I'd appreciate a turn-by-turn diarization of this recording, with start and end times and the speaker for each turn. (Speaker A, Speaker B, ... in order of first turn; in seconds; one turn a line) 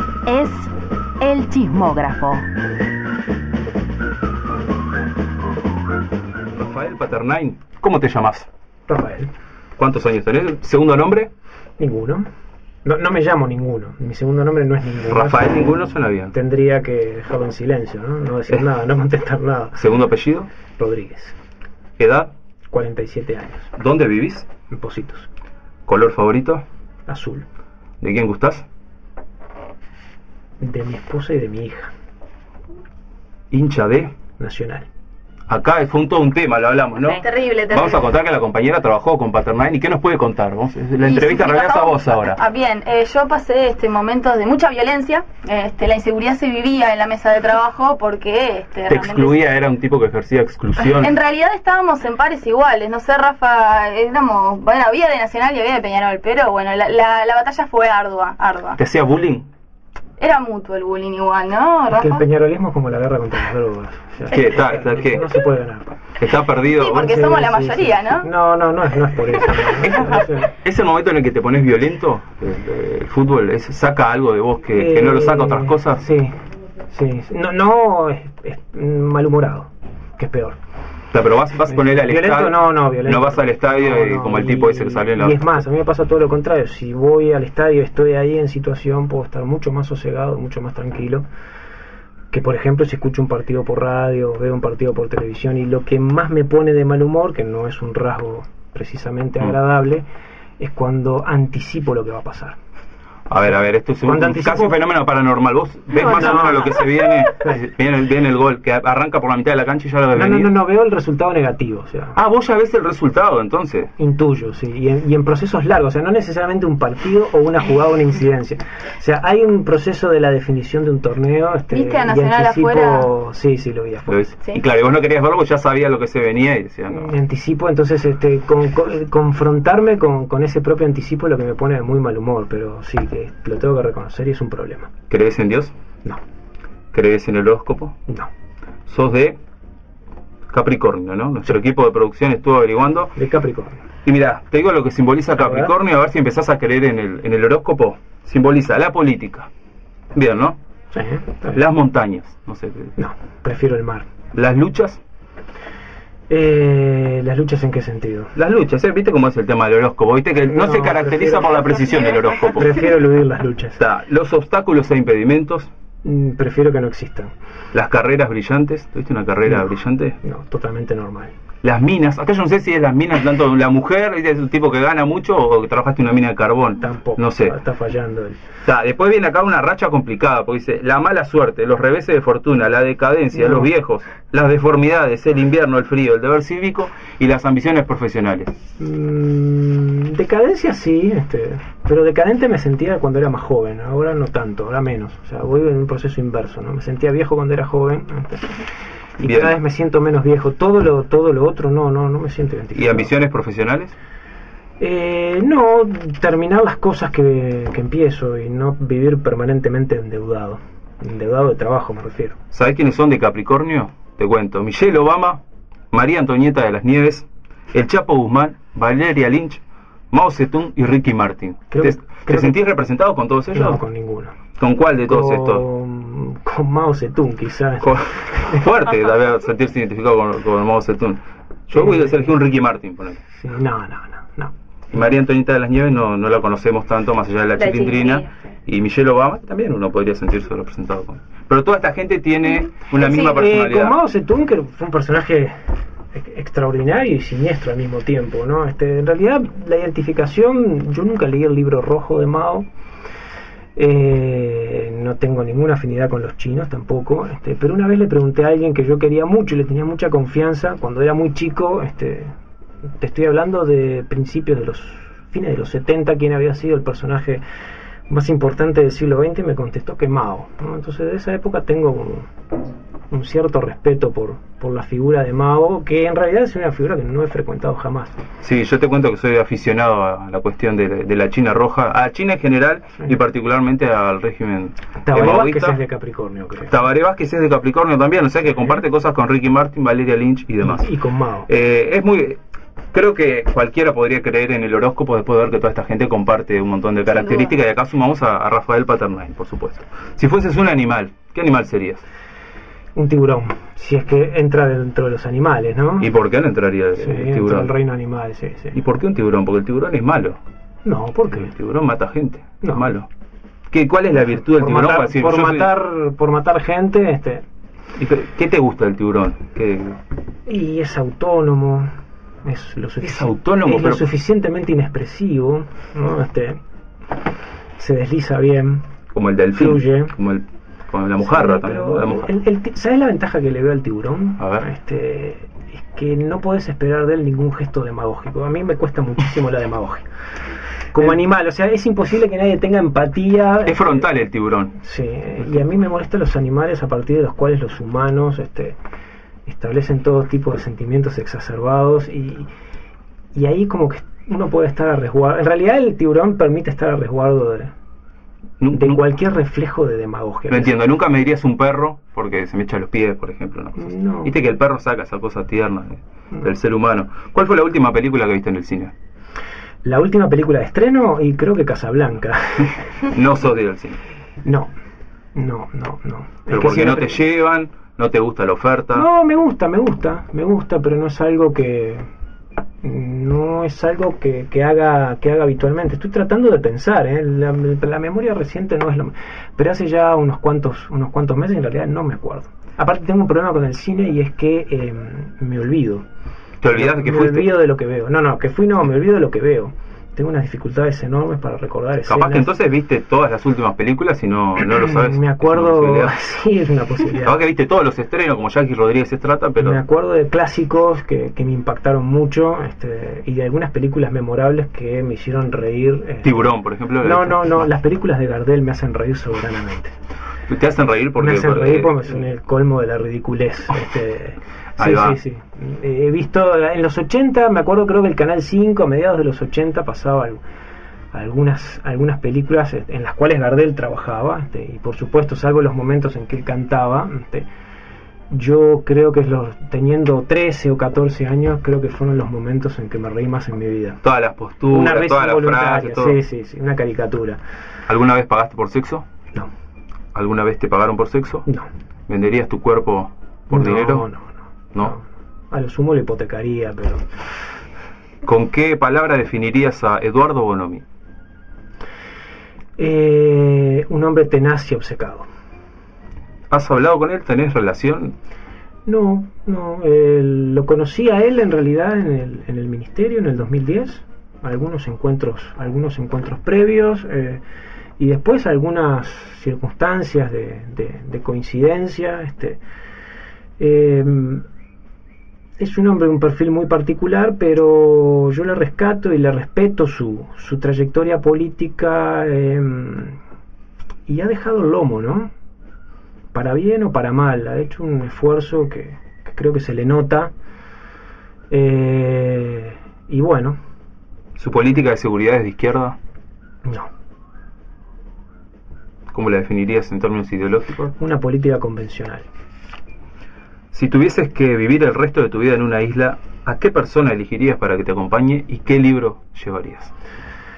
Speaker A: 0.3-2.5
Speaker B: 6.5-8.5
Speaker C: 8.9-9.3
Speaker B: 9.8-11.3
Speaker C: 11.8-12.3
Speaker C: 12.8-19.8
Speaker B: 15.1-16.3
Speaker B: 19.8-20.5
Speaker C: 20.8-21.4
Speaker B: 22.0-22.3
Speaker C: 22.7-23.7
Speaker B: 23.8-24.5
Speaker C: 24.7-25.3
Speaker B: 25.9-26.6
Speaker C: 27.1-27.4
Speaker B: 28.0-28.6
Speaker C: 30.6-31.9
Speaker B: 33.5-34.1
Speaker C: 34.4-34.9
Speaker B: 35.5-42.4
Speaker D: 37.1-38.1
Speaker D: 41.0-49.4
Speaker B: 48.9-51.2
Speaker D: 50.8-58.8
Speaker B: 58.8-59.5
Speaker D: 60.2-62.2
Speaker C: 61.9-66.0
Speaker B: 64.3-65.3
Speaker B: 66.2-67.3
Speaker D: 66.6-68.3
Speaker C: 67.0-70.5
Speaker B: 69.8-76.0
Speaker C: 74.7-80.6
Speaker B: 81.1-85.6
Speaker C: 81.7-91.3
Speaker C: 92.3-100.1
Speaker C: 100.6-102.6
Speaker B: 103.3-110.6
Speaker C: 104.0-104.8
Speaker C: 106.0-106.8
Speaker C: 107.3-107.7
Speaker C: 110.1-112.2
Speaker B: 112.2-113.9
Speaker C: 114.0-124.3
Speaker D: 121.7-123.1
Speaker B: 124.1-127.2
Speaker C: 126.9-134.9
Speaker B: 135.1-135.7
Speaker B: 136.9-137.9
Speaker B: 138.9-139.4
Speaker B: 140.5-143.1
Speaker C: 143.2-143.8
Speaker B: 144.1-149.5
Speaker C: 145.3-145.7
Speaker B: 150.2-150.6
Speaker C: 150.9-151.6
Speaker B: 151.5-152.9
Speaker C: 153.0-154.1
Speaker B: 154.3-155.0
Speaker C: 156.3-158.3
Speaker B: 158.3-162.8
Speaker C: 160.5-161.8
Speaker C: 162.4-163.8
Speaker B: 163.8-165.7
Speaker C: 166.0-167.3
Speaker B: 167.7-170.2
Speaker C: 170.2-171.3
Speaker B: 171.6-177.6
Speaker C: 176.8-178.4
Speaker B: 178.7-188.5
Speaker C: 183.3-183.7
Speaker C: 188.8-198.6
Speaker C: 199.2-203.1
Speaker B: 199.2-199.5
Speaker B: 202.7-203.9
Speaker C: 204.8-212.4
Speaker B: 212.5-215.4
Speaker B: 215.9-223.8
Speaker C: 221.7-222.6
Speaker C: 223.5-224.4
Speaker B: 224.6-225.7
Speaker C: 225.1-228.7
Speaker B: 227.8-233.2
Speaker C: 231.7-232.3
Speaker C: 233.4-234.5
Speaker B: 234.9-244.0
Speaker D: 237.6-238.3
Speaker C: 242.9-245.6
Speaker C: 246.1-252.7
Speaker C: 253.8-262.3
Speaker C: 263.0-267.4
Speaker C: 268.1-272.3
Speaker C: 273.1-278.2
Speaker B: 278.4-285.8
Speaker C: 285.0-286.8
Speaker B: 286.6-290.9
Speaker C: 290.6-291.5
Speaker B: 291.5-292.4
Speaker B: 292.9-302.0
Speaker D: 297.1-297.5
Speaker C: 302.9-306.1
Speaker B: 306.0-307.7
Speaker C: 307.0-308.8
Speaker B: 308.7-310.4
Speaker C: 310.9-311.5
Speaker B: 311.3-313.1
Speaker C: 312.6-312.9
Speaker B: 313.7-315.7
Speaker C: 314.4-317.4
Speaker B: 318.0-320.0
Speaker C: 320.5-321.9
Speaker C: 322.4-326.6
Speaker B: 323.0-324.1
Speaker C: 327.8-328.9
Speaker B: 329.1-332.3
Speaker C: 329.5-330.1
Speaker C: 331.2-340.1
Speaker B: 334.4-334.7
Speaker B: 340.9-341.2
Speaker C: 340.9-344.1
Speaker B: 343.6-344.8
Speaker C: 344.8-348.8
Speaker C: 349.5-352.5
Speaker C: 353.3-357.7
Speaker B: 358.6-359.0
Speaker C: 358.7-360.8
Speaker B: 360.5-368.9
Speaker C: 363.8-364.4
Speaker C: 369.8-373.0
Speaker B: 373.1-374.0
Speaker C: 374.4-374.7
Speaker C: 375.4-377.2
Speaker B: 376.5-379.1
Speaker C: 378.9-382.1
Speaker C: 382.8-396.1
Speaker B: 396.6-397.6
Speaker C: 396.7-402.5
Speaker B: 402.1-406.2
Speaker C: 404.6-407.4
Speaker B: 407.1-409.8
Speaker C: 409.6-416.5
Speaker B: 416.2-417.7
Speaker C: 417.0-420.0
Speaker B: 420.5-422.2
Speaker C: 421.2-430.4
Speaker B: 424.8-425.2
Speaker C: 431.1-437.5
Speaker C: 438.3-444.0
Speaker B: 444.0-446.2
Speaker C: 444.7-447.4
Speaker B: 447.9-449.1
Speaker B: 450.1-451.5
Speaker B: 452.1-454.1
Speaker C: 453.5-457.1
Speaker B: 458.2-460.8
Speaker C: 462.8-465.3
Speaker B: 466.5-468.1
Speaker C: 468.9-477.4
Speaker C: 478.0-482.6
Speaker C: 483.6-484.4
Speaker C: 485.6-493.2
Speaker C: 494.1-495.3
Speaker C: 496.3-500.3
Speaker C: 501.5-503.6
Speaker B: 504.4-506.0
Speaker B: 509.1-510.9
Speaker C: 510.9-512.3
Speaker B: 513.7-519.9